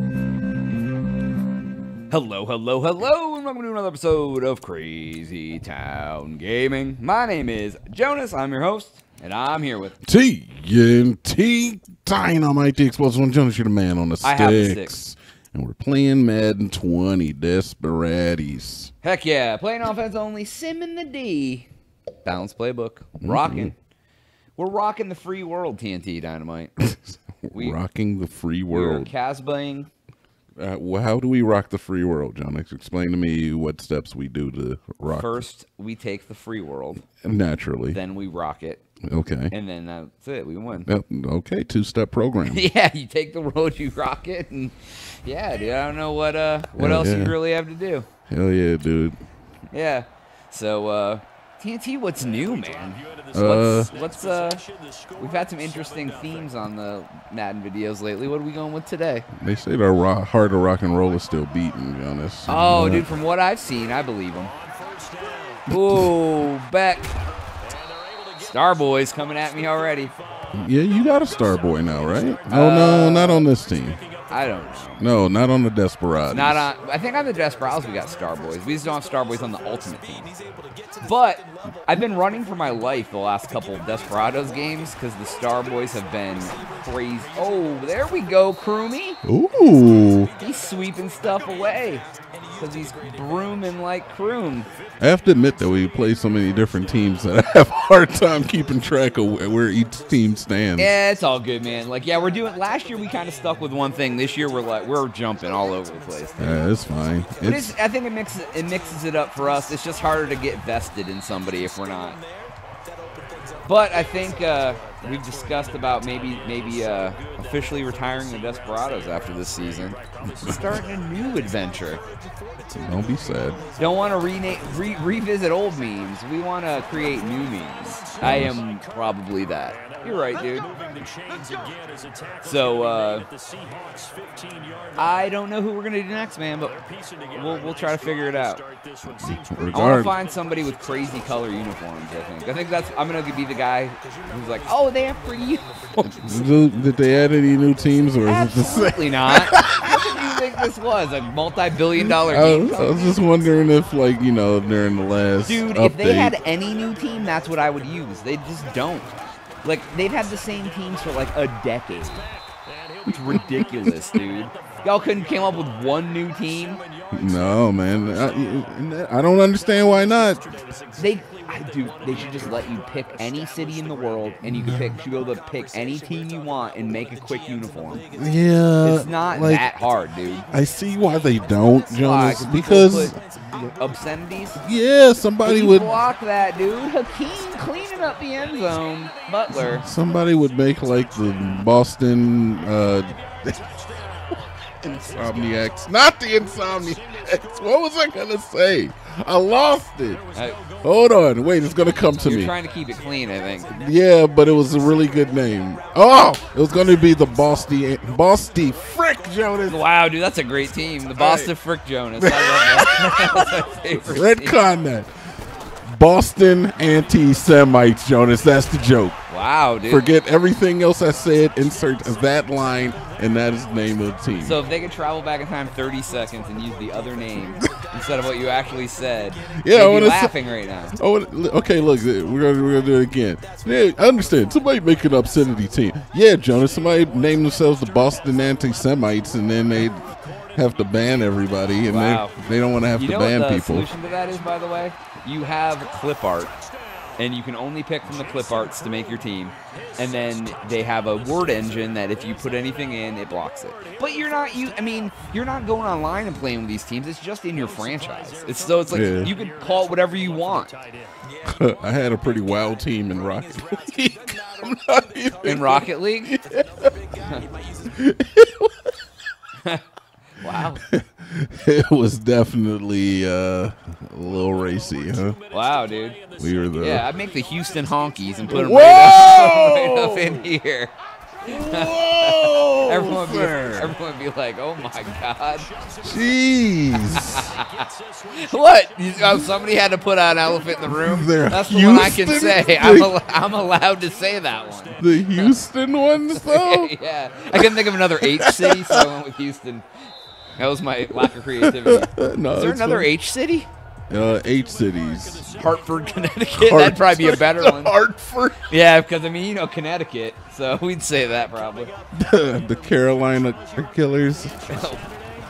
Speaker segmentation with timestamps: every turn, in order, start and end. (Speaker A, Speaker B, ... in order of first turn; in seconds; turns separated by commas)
Speaker A: 2.1-10.0, Speaker B: 10.0-18.9, Speaker A: 14.2-15.0, Speaker A: 19.0-21.7, Speaker A: 22.2-23.8, Speaker B: 23.2-23.7, Speaker A: 24.6-26.7, Speaker B: 26.8-29.1, Speaker A: 27.5-27.8, Speaker A: 28.7-29.9, Speaker B: 30.6-35.4, Speaker A: 35.1-37.1, Speaker B: 37.2-38.0, Speaker A: 37.9-38.8, Speaker B: 39.1-39.5, Speaker A: 39.5-40.9, Speaker B: 40.9-42.6, Speaker A: 42.5-48.1, Speaker B: 46.8-47.4, Speaker B: 48.3-49.2, Speaker A: 49.7-54.6, Speaker B: 53.3-53.9, Speaker A: 55.2-59.2, Speaker B: 59.4-63.1, Speaker A: 62.5-64.5, Speaker A: 65.7-67.2, Speaker B: 65.7-66.1, Speaker A: 68.4-70.1, Speaker B: 70.5-74.0, Speaker A: 72.5-73.5, Speaker A: 74.3-75.0, Speaker B: 75.0-76.7, Speaker A: 76.3-80.3, Speaker A: 81.0-89.2, Speaker B: 89.2-90.3, Speaker A: 90.4-92.0, Speaker A: 92.6-94.7, Speaker B: 95.0-101.0, Speaker A: 100.8-106.6, Speaker B: 106.4-107.8, Speaker A: 107.4-112.2, Speaker A: 113.7-122.0, Speaker B: 122.8-123.6, Speaker A: 123.8-130.7, Speaker B: 128.2-128.6, Speaker A: 132.4-133.3, Speaker A: 135.0-138.6, Speaker B: 139.1-140.1, Speaker A: 139.7-146.4, Speaker B: 146.0-150.4, Speaker A: 148.2-153.2, Speaker B: 152.1-156.3, Speaker A: 155.4-162.3, Speaker A: 163.1-166.8, Speaker B: 163.3-163.9, Speaker B: 167.1-170.4, Speaker A: 171.0-178.0, Speaker B: 174.4-175.0, Speaker B: 178.1-179.7, Speaker A: 178.8-180.5, Speaker B: 180.5-183.2, Speaker A: 182.0-184.6, Speaker B: 184.6-185.9, Speaker A: 185.4-189.9, Speaker B: 189.6-193.6, Speaker B: 194.8-200.2, Speaker A: 200.3-200.6, Speaker B: 200.8-202.5, Speaker A: 202.2-203.8, Speaker B: 203.7-209.8, Speaker A: 209.7-214.6, Speaker B: 211.2-211.5, Speaker B: 212.2-213.5, Speaker B: 214.1-215.1, Speaker B: 215.8-219.2, Speaker A: 219.3-220.1, Speaker B: 219.9-224.6, Speaker A: 224.4-231.0, Speaker B: 229.6-230.3, Speaker B: 231.0-243.9, Speaker A: 241.9-242.4, Speaker A: 242.9-246.5, Speaker A: 247.2-260.8, Speaker B: 258.9-259.3, Speaker B: 261.4-266.9, Speaker A: 265.4-266.4, Speaker B: 267.9-268.9, Speaker A: 270.4-270.8, Speaker B: 270.9-275.4, Speaker A: 275.5-276.2, Speaker B: 276.4-277.1, Speaker A: 276.8-280.9, Speaker B: 278.5-280.5, Speaker B: 281.4-283.9, Speaker A: 281.4-285.7, Speaker B: 286.0-287.6, Speaker A: 287.0-295.6, Speaker B: 290.9-293.1, Speaker B: 295.0-296.9, Speaker A: 296.3-303.7, Speaker B: 297.5-299.1, Speaker B: 301.2-303.1, Speaker B: 304.1-305.7, Speaker A: 305.6-308.0, Speaker B: 306.6-308.7, Speaker A: 308.7-311.9, Speaker B: 312.1-314.9, Speaker A: 314.7-315.1